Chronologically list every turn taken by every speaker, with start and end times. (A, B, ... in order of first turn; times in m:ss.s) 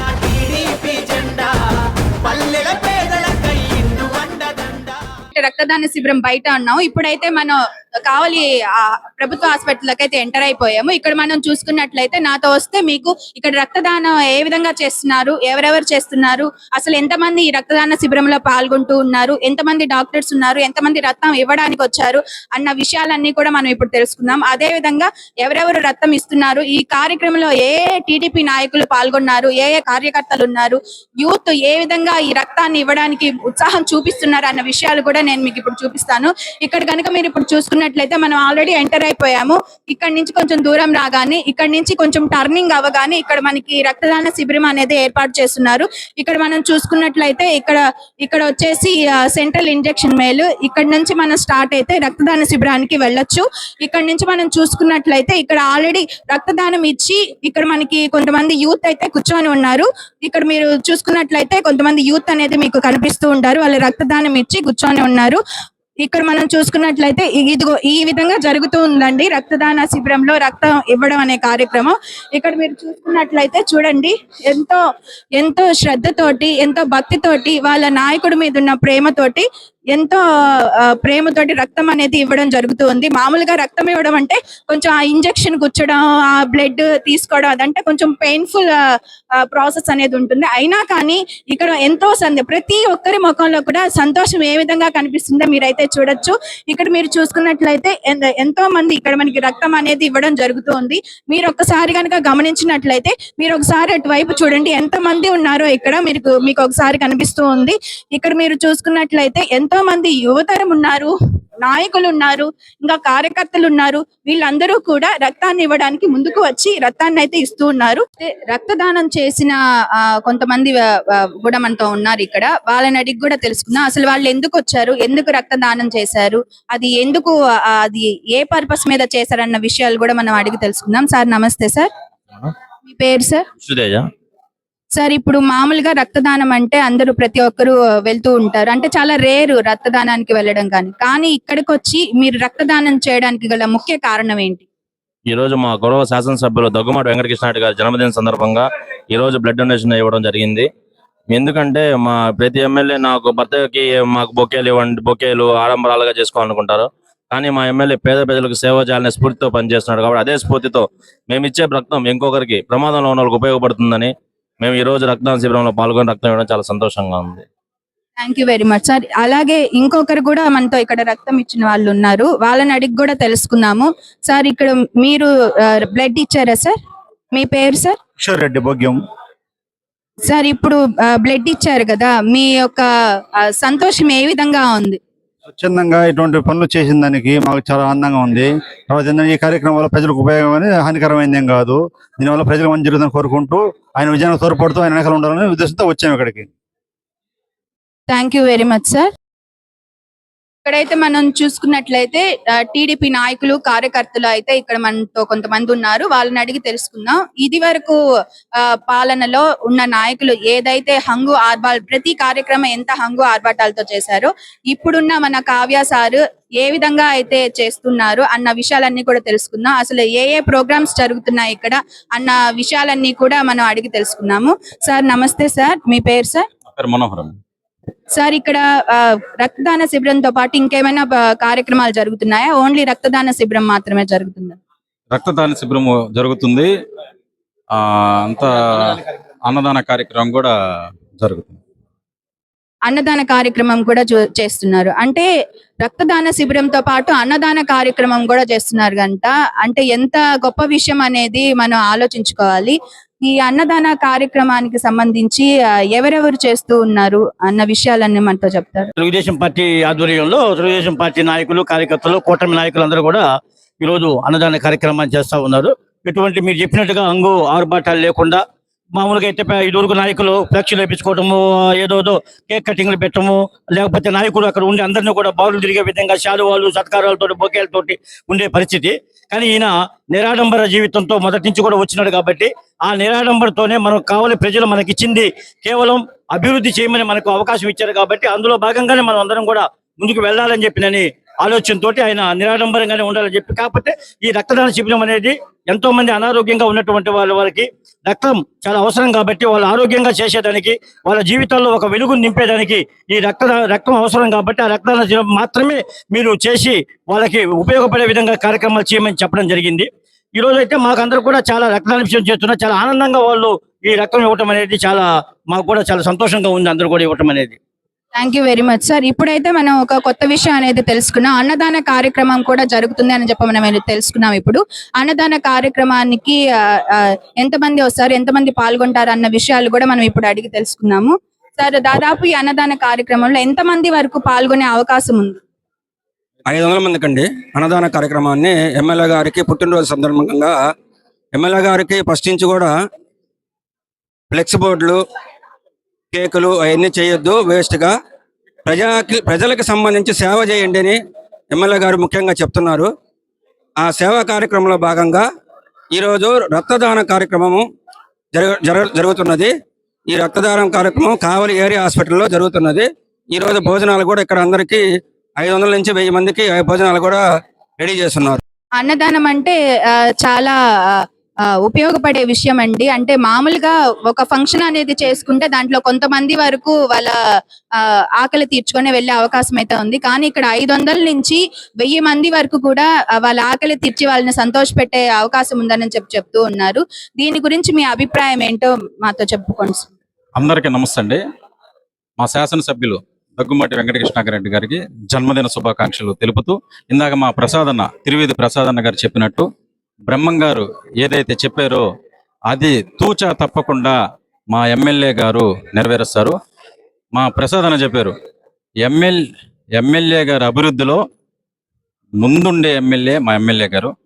0:00.3-0:01.5 A
0:02.2-0:04.9 A
0:05.3-1:05.4 B
1:06.0-1:14.8 B
1:15.4-1:20.2 B
1:20.8-1:28.8 B
1:29.4-2:11.9 B
2:12.9-2:13.4 B
2:13.6-2:14.0 A
2:15.0-2:24.7 B
2:25.3-2:30.7 A
2:31.3-2:47.4 A
2:48.2-2:56.8 B
2:57.3-2:58.0 B
2:58.2-2:59.0 C
3:00.3-3:02.9 B
3:03.5-3:05.0 B
3:05.5-3:16.5 C
3:18.1-3:19.1 B
3:20.6-3:28.0 B
3:28.7-3:46.4 B
3:46.8-3:47.4 D
3:48.1-3:54.6 B
3:55.1-3:56.7 D
3:57.8-4:00.5 D
4:01.2-4:01.6 D
4:02.9-4:05.3 B
4:05.8-4:18.9 B
4:19.0-4:23.2 E
4:23.8-4:28.4 E
4:28.9-5:17.6 E
5:18.2-5:35.4 B
5:36.5-5:40.6 F
5:41.3-5:42.7 F
5:44.3-5:45.0 F
5:46.1-5:47.9 F
5:48.7-5:51.0 F
5:51.5-5:52.9 F
5:53.8-5:55.2 F
5:55.9-5:57.6 F
5:58.3-5:59.5 F
6:00.1-6:04.8 F
6:05.4-6:07.2 F
6:07.8-6:08.4 F
6:08.8-6:11.0 B
6:11.6-6:17.2 B
6:17.8-6:29.9 B
6:30.4-6:31.2 D
6:32.2-6:39.5 D
6:40.1-6:41.8 D
6:42.5-6:44.0 D
6:44.5-6:46.4 D
6:47.1-6:48.1 D
6:48.8-6:49.2 D
6:49.8-6:51.0 D
6:52.2-6:53.9 D